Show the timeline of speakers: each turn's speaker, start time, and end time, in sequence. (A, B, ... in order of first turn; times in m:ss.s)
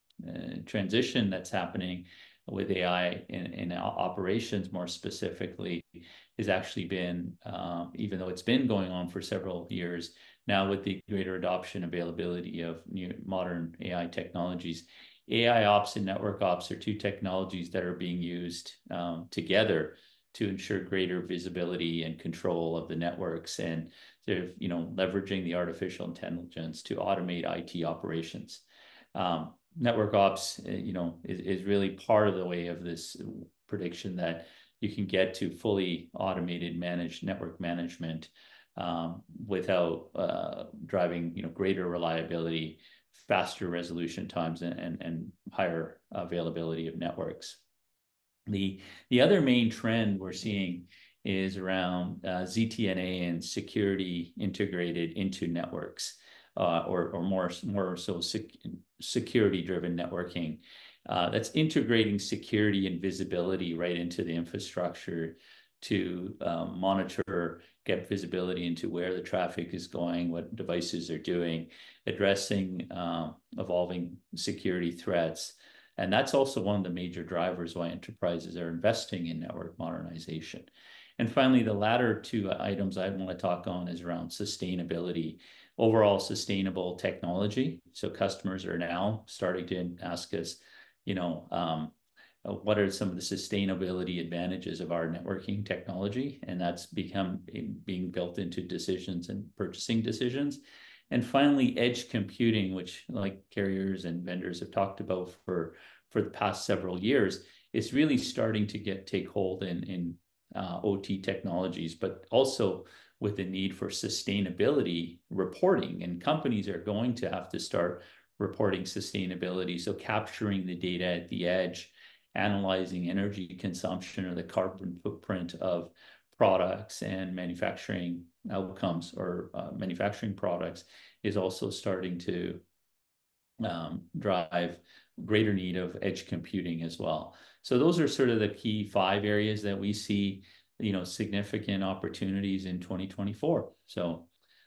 0:00.2-0:47.6 A
0:48.5-2:12.6 A
2:13.6-2:24.3 A